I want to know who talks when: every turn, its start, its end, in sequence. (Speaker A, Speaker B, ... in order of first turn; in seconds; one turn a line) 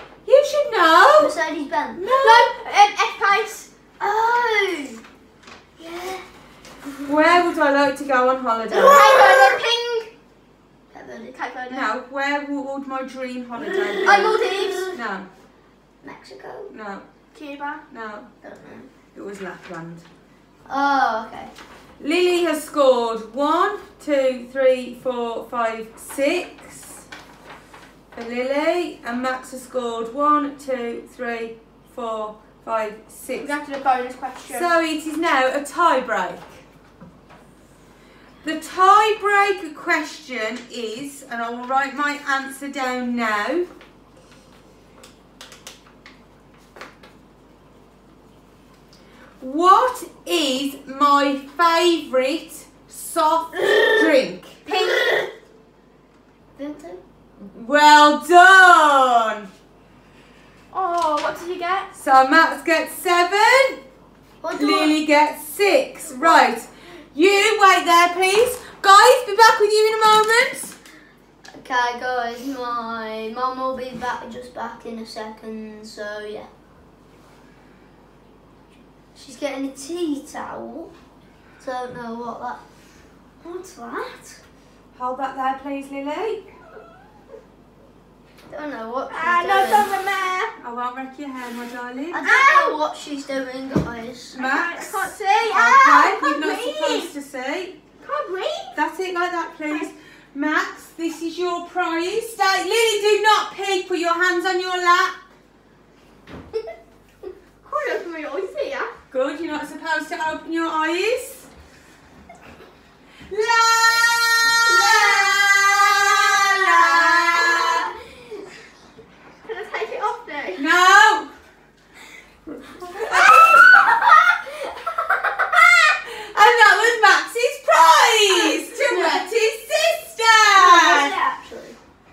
Speaker A: 0.2-1.3
Speaker B: 1.2-2.0
Speaker A: 1.9-2.5
Speaker C: 2.2-3.7
Speaker B: 4.0-5.0
Speaker B: 5.8-6.2
Speaker A: 7.0-9.1
Speaker C: 8.7-10.1
Speaker B: 10.9-11.4
Speaker C: 11.3-11.9
Speaker A: 11.7-15.3
Speaker C: 14.0-14.9
Speaker B: 16.0-16.7
Speaker A: 16.7-17.0
Speaker C: 17.3-17.8
Speaker A: 17.9-18.3
Speaker B: 18.4-18.9
Speaker A: 19.1-20.0
Speaker B: 20.6-21.5
Speaker A: 22.0-27.0
Speaker A: 28.1-33.5
Speaker C: 33.3-34.7
Speaker A: 34.5-36.6
Speaker A: 38.4-43.7
Speaker A: 49.4-54.6
Speaker C: 54.6-55.2
Speaker B: 56.5-57.0
Speaker A: 57.4-59.5
Speaker C: 60.7-61.9
Speaker A: 61.9-63.8
Speaker B: 64.4-64.9
Speaker A: 64.5-70.8
Speaker B: 66.1-66.5
Speaker B: 71.5-76.5
Speaker B: 79.1-80.9
Speaker B: 81.6-82.6
Speaker B: 83.4-84.4
Speaker A: 84.9-86.5
Speaker B: 88.5-89.9
Speaker C: 89.1-90.5
Speaker A: 90.6-92.2
Speaker B: 92.1-94.4
Speaker C: 92.2-92.7
Speaker A: 94.3-97.8
Speaker C: 94.3-97.1
Speaker C: 98.0-98.7
Speaker A: 98.7-105.1
Speaker C: 107.6-108.9
Speaker A: 109.1-111.5
Speaker A: 113.3-117.9
Speaker C: 114.7-115.4
Speaker C: 119.4-120.7
Speaker A: 120.6-121.3
Speaker A: 122.8-123.9
Speaker A: 125.5-131.1
Speaker B: 128.9-129.2
Speaker B: 130.5-131.8